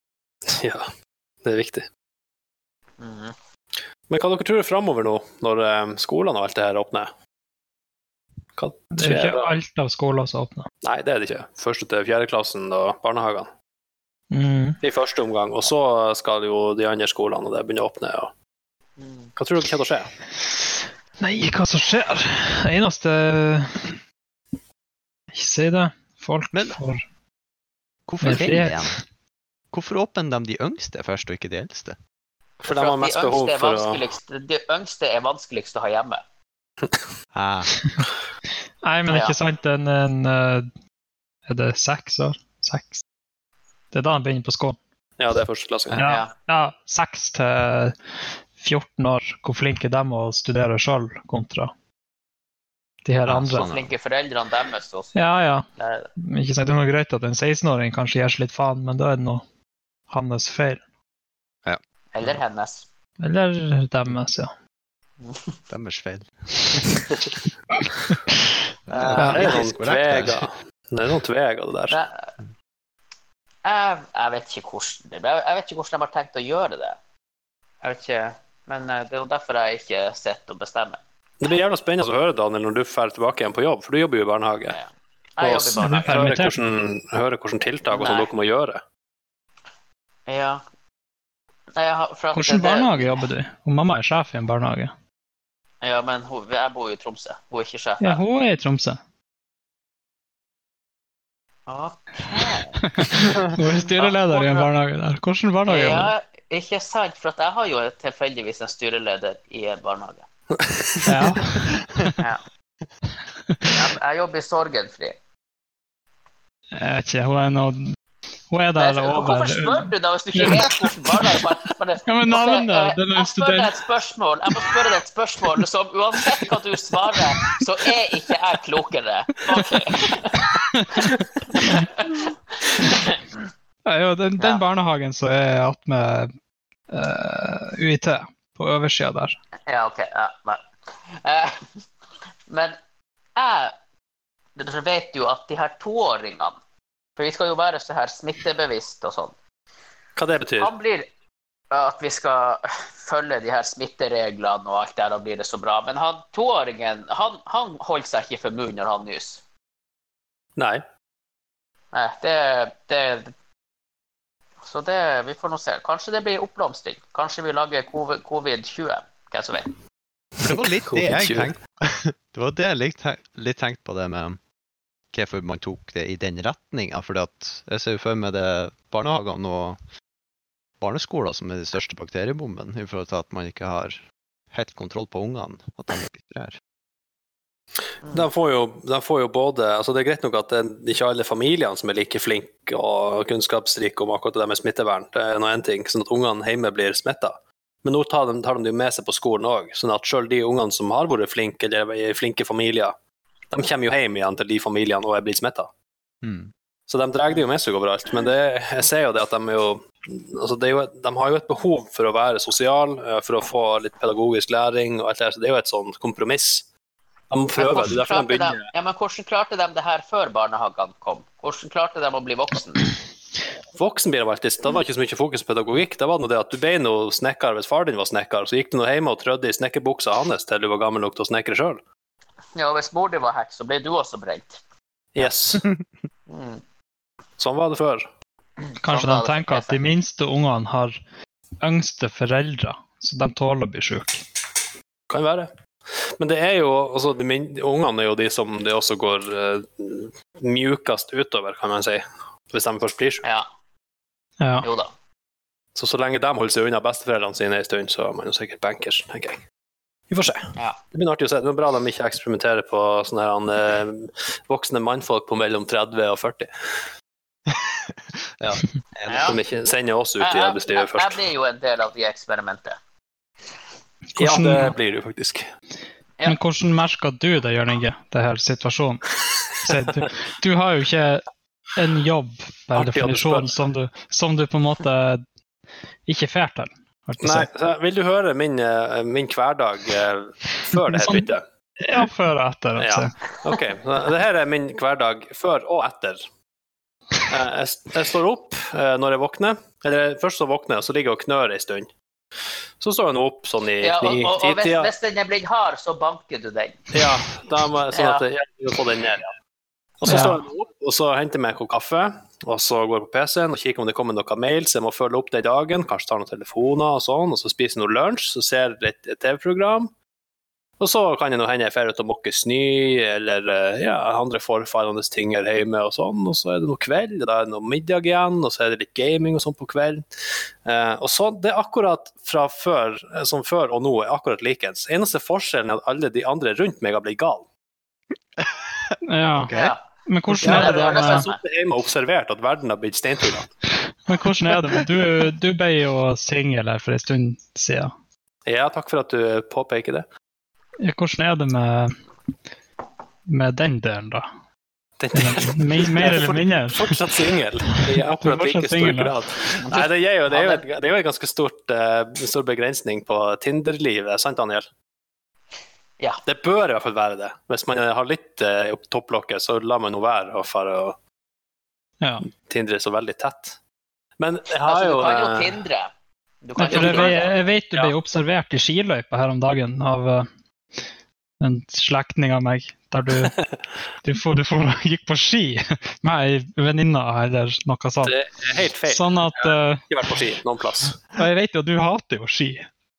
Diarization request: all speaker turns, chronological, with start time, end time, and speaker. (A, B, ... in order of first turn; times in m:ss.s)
0:00.5-0:00.9 A
0:01.4-0:01.9 A
0:03.0-0:03.4 B
0:04.1-0:07.1 A
0:08.6-0:09.5 A
0:08.9-0:10.7 C
0:10.8-0:13.5 A
0:14.3-0:14.8 C
0:14.8-0:18.3 A
0:19.0-0:19.3 B
0:19.4-0:20.1 A
0:21.2-0:24.0 C
0:25.3-0:27.0 C
0:26.5-0:26.8 D
0:28.1-0:29.0 D
0:28.2-0:29.0 C
0:29.7-0:32.0 D
0:32.6-0:34.0 A
0:32.6-0:36.2 B
0:37.3-0:37.7 D
0:38.8-0:40.7 C
0:39.1-0:39.4 B
0:41.5-0:43.0 C
0:43.9-0:44.8 C
0:45.2-0:46.0 A
0:45.9-0:46.3 B
0:46.0-0:48.0 C
0:48.6-0:51.7 C
0:53.0-0:53.7 C
0:53.3-0:53.9 D
0:53.5-0:55.2 B
0:55.1-0:55.6 C
0:55.8-0:56.1 B
0:56.2-0:59.4 C
1:00.1-1:00.8 C
1:01.6-1:02.4 D
1:02.1-1:02.9 B
1:03.2-1:04.5 C
1:05.2-1:05.6 B
1:05.7-1:07.0 D
1:08.9-1:10.4 D
1:09.2-1:09.5 C
1:09.2-1:12.0 A
1:11.9-1:12.3 B
1:13.6-1:17.0 B
1:17.8-1:21.0 B
1:21.4-1:24.8 A
1:24.7-1:26.2 B
1:25.4-1:28.8 A
1:25.8-1:26.6 C
1:27.9-1:28.3 B
1:30.3-1:30.6 B
1:31.8-1:33.2 B
1:32.3-1:34.9 C
1:35.8-1:38.2 B
1:38.0-1:39.0 C
1:41.7-1:42.8 B
1:42.9-1:46.1 C
1:44.0-1:44.7 B
1:45.7-1:50.2 B
1:50.6-1:51.1 A
1:51.0-1:52.2 C
1:53.6-1:55.2 B
1:56.7-1:58.0 C
1:58.5-2:01.2 C
1:58.8-2:13.2 B
2:02.1-2:03.8 C
2:10.4-2:11.9 C
2:13.8-2:16.3 C
2:16.9-2:19.4 C
2:19.7-2:21.8 B
2:22.5-2:22.8 B
2:23.4-2:23.8 B
2:24.6-2:26.6 B
2:27.2-2:29.3 B
2:30.2-2:30.7 A
2:30.6-2:31.1 B
2:31.7-2:39.4 B
2:40.6-2:40.8 A
2:41.9-2:43.3 B
2:44.6-2:49.7 B
2:50.4-2:51.5 A
2:50.4-2:54.4 D
2:55.1-2:59.8 D
3:00.8-3:06.6 D
3:08.1-3:23.0 A
3:23.5-3:25.7 A
3:26.2-3:26.5 D
3:26.9-3:36.7 A
3:37.3-3:38.7 A
3:37.6-3:42.9 B
3:43.8-3:51.8 A
3:52.6-3:54.6 B
3:55.2-3:55.6 A
3:56.3-3:56.6 B
3:57.4-3:58.1 A
3:58.6-3:59.8 B
3:58.8-4:01.0 C
4:01.6-4:04.2 C
4:05.1-4:13.2 A
4:14.4-4:14.7 C
4:14.6-4:14.9 B
4:15.8-4:19.4 A
4:20.1-4:26.5 A
4:27.5-4:29.3 D
4:29.1-4:29.4 B
4:29.2-4:31.2 A
4:30.2-4:32.8 B
4:34.2-4:34.8 C
4:34.2-4:35.5 A
4:36.2-4:45.2 C
4:42.7-4:43.5 A
4:46.1-4:47.5 C
4:47.2-4:51.4 A
4:50.8-4:53.2 C
4:52.8-4:56.2 A
4:57.3-5:01.9 A
5:02.8-5:04.9 A
5:03.8-5:06.9 B
5:06.9-5:09.3 A
5:07.9-5:08.2 B
5:10.0-5:19.9 A
5:10.0-5:10.4 C
5:10.1-5:10.4 B
5:20.8-5:30.0 A
5:30.6-5:37.5 A
5:38.4-5:39.7 D
5:39.0-5:41.3 C
5:39.5-5:39.8 B
5:40.4-5:41.4 B
5:40.4-5:43.5 A
5:43.9-5:47.9 C
5:48.5-5:50.1 A
5:50.8-5:52.0 C
5:53.3-5:54.3 C
5:55.0-6:04.7 A
5:55.2-5:57.0 C
5:58.2-5:59.2 C
5:59.5-6:00.7 B
6:06.3-6:11.0 A
6:12.0-6:12.3 C
6:12.4-6:13.6 A
6:14.2-6:15.6 A
6:14.6-6:15.9 B
6:16.4-6:17.3 B
6:16.6-6:20.3 C
6:16.7-6:17.2 A
6:21.4-6:23.4 C
6:23.2-6:23.5 A
6:24.0-6:28.2 C
6:28.0-6:31.0 A
6:28.9-6:29.8 C
6:31.1-6:32.7 C